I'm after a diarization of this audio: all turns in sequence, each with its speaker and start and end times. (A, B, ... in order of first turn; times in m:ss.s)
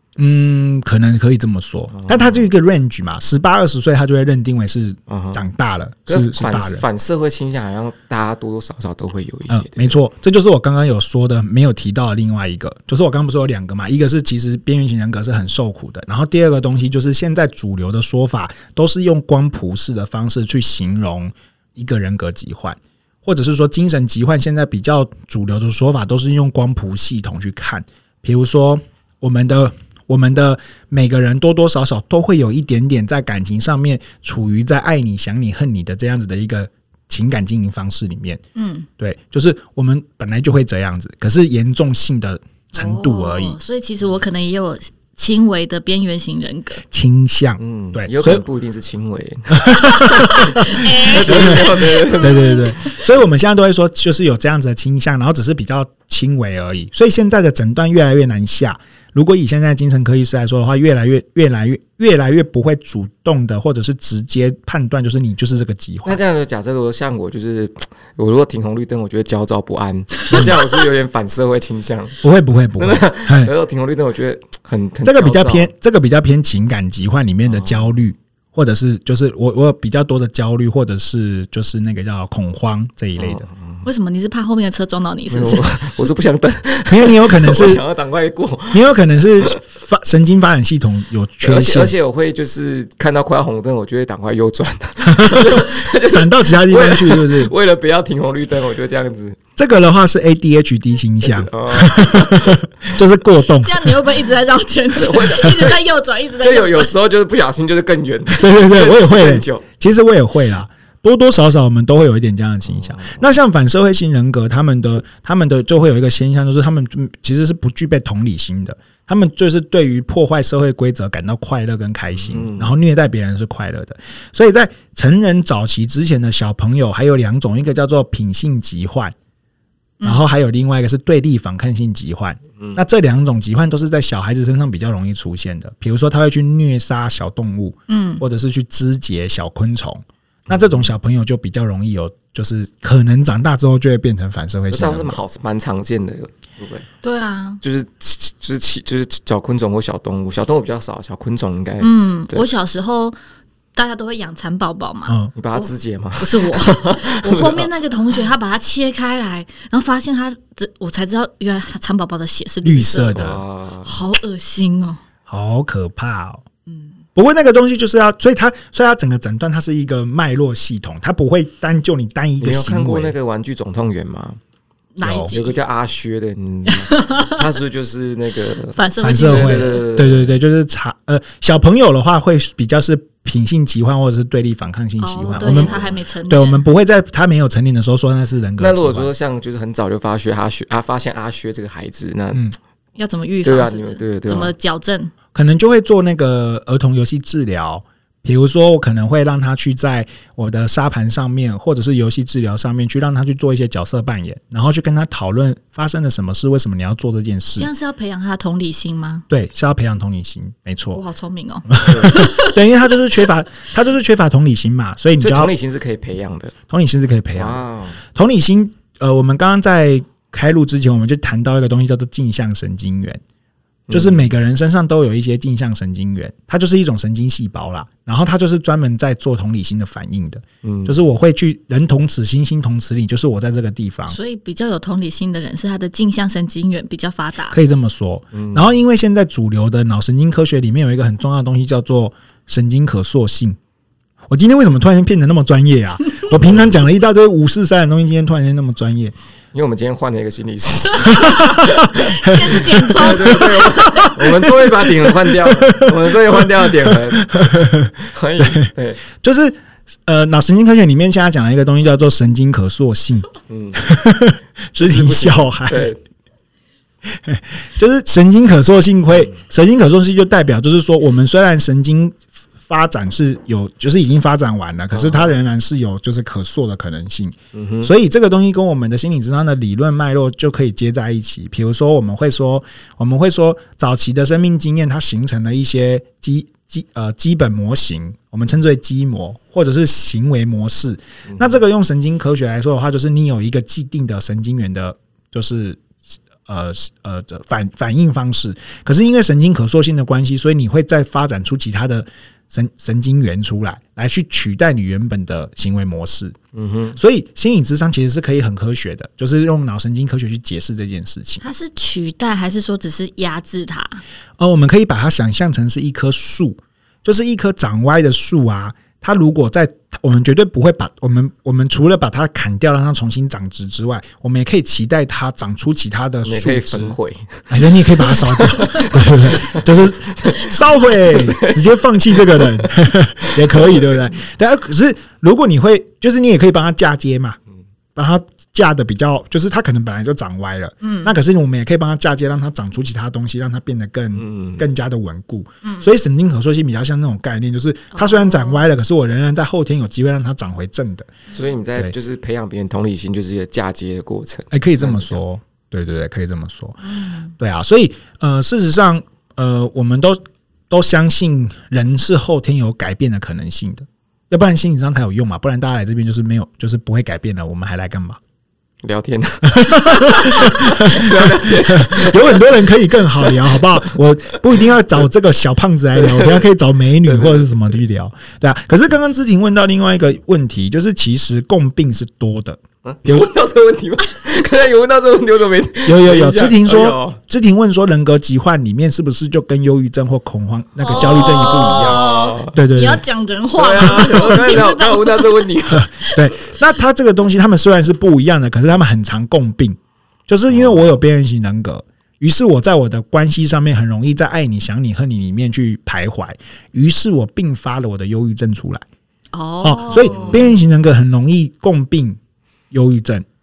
0:00.2-0:06.8 A
0:01.9-0:02.5 B
0:05.1-0:05.4 B
0:06.1-0:10.0 B
0:09.5-0:38.4 A
0:38.5-0:38.9 C
0:39.0-0:43.6 A
0:42.8-0:46.8 C
0:46.9-0:48.4 A
0:47.6-0:52.6 B
0:49.5-1:06.2 A
0:50.2-0:52.8 C
1:06.0-1:12.2 B
1:12.2-1:13.5 A
1:12.8-1:15.7 B
1:15.0-1:23.4 A
1:17.5-1:17.9 B
1:23.2-1:23.8 B
1:23.8-1:25.7 C
1:25.3-1:28.9 B
1:26.9-1:27.8 A
1:28.7-1:31.9 A
1:31.4-1:39.4 B
1:35.0-1:37.5 A
1:39.6-1:44.0 A
1:41.2-1:42.7 B
1:43.5-1:46.9 C
1:44.9-1:45.8 B
1:46.4-1:49.6 B
1:48.3-2:09.1 A
1:52.6-1:53.2 B
2:02.2-2:02.8 B
2:10.0-2:25.2 A
2:17.9-2:18.2 C
2:20.5-2:20.8 B
2:24.7-2:26.8 B
2:27.0-2:27.6 C
2:27.6-2:32.4 B
2:31.8-2:33.2 C
2:33.7-2:43.2 C
2:35.3-2:37.7 B
2:42.6-2:43.4 A
2:43.1-2:44.0 B
2:43.8-2:45.0 C
2:45.3-2:46.4 A
2:46.7-2:46.9 C
2:47.1-2:53.1 A
2:52.4-2:54.4 B
2:55.0-2:55.6 C
2:55.0-2:55.3 A
2:55.3-3:00.4 B
2:56.7-2:57.4 C
2:58.7-2:59.8 C
2:59.0-3:09.1 A
3:05.0-3:06.6 C
3:05.3-3:05.9 B
3:08.6-3:12.4 B
3:13.0-3:15.1 C
3:13.4-3:14.5 B
3:15.3-3:27.7 A
3:27.6-3:29.2 C
3:29.3-3:31.0 A
3:30.9-3:32.6 C
3:31.7-3:35.5 A
3:31.8-3:32.2 B
3:35.2-3:36.5 B
3:36.7-3:43.2 A
3:37.3-3:38.0 B
3:43.9-3:44.3 B
3:43.9-3:54.2 A
3:50.6-3:51.0 B
3:54.1-3:57.6 C
3:57.5-4:03.6 A
3:58.3-3:58.7 B
4:04.3-4:09.1 A
4:06.4-4:06.7 B
4:09.5-4:19.0 B
4:11.1-4:25.9 A
4:11.1-4:14.1 C
4:23.5-4:23.8 B
4:24.8-4:26.0 B
4:27.0-4:55.8 A
4:34.9-4:35.3 B
4:37.5-4:37.9 B
4:56.4-5:06.3 A
5:06.5-5:07.0 B
5:07.0-5:11.4 A
5:11.4-5:14.0 C
5:14.4-5:27.0 A
5:26.2-5:32.7 B
5:27.5-5:37.4 A
5:33.2-5:34.0 B
5:37.9-5:51.1 A
5:40.8-5:41.2 C
5:44.1-5:44.6 B
5:45.6-5:45.9 C
5:47.9-5:48.6 C
5:51.3-5:55.2 B
5:54.5-5:56.8 A
5:56.8-5:57.3 C
5:57.4-6:08.2 A
6:08.8-6:13.7 B
6:09.4-6:23.3 A
6:16.0-6:16.5 B
6:17.0-6:17.5 B
6:22.8-6:27.2 B
6:25.8-6:33.0 A
6:30.8-6:36.2 C
6:30.9-6:32.6 B
6:33.5-6:35.9 B
6:35.8-6:39.8 A
6:40.3-6:48.8 A
6:40.5-6:40.8 B
6:49.3-6:50.4 C
6:49.6-6:52.2 A
6:49.9-6:50.5 B
6:52.7-6:53.2 A